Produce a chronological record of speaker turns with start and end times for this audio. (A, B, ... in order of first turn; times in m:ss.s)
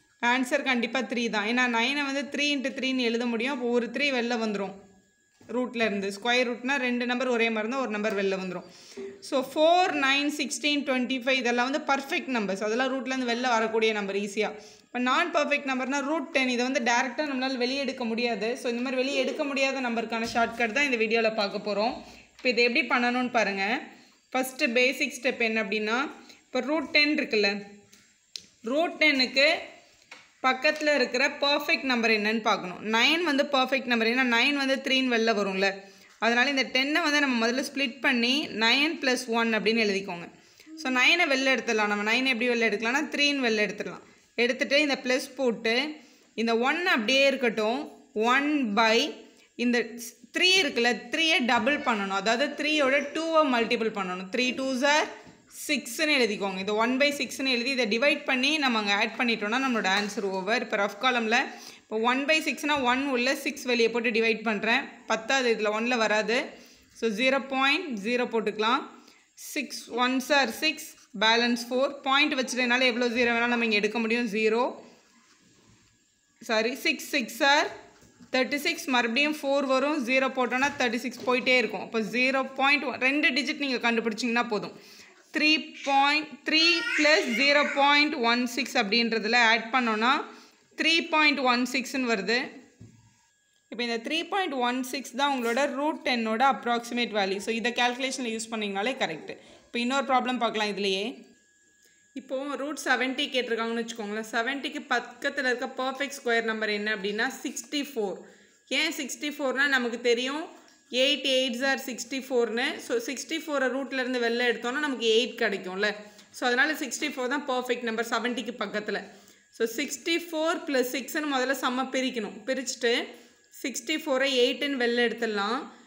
0:00.2-0:04.8 A
0:05.5-0:08.7 A
0:09.2-0:23.7 A
0:24.3-0:27.6 A
0:28.6-0:29.5 A
0:30.4-0:45.8 A
0:46.4-1:06.4 A
1:07.0-1:08.8 A
1:09.4-1:14.7 A
1:16.4-1:17.7 A
1:18.3-1:24.7 A
1:25.3-1:30.2 A
1:30.8-1:32.4 A
1:33.7-1:41.1 A
1:42.2-1:59.0 A
1:59.5-2:03.0 A
2:03.6-2:05.6 A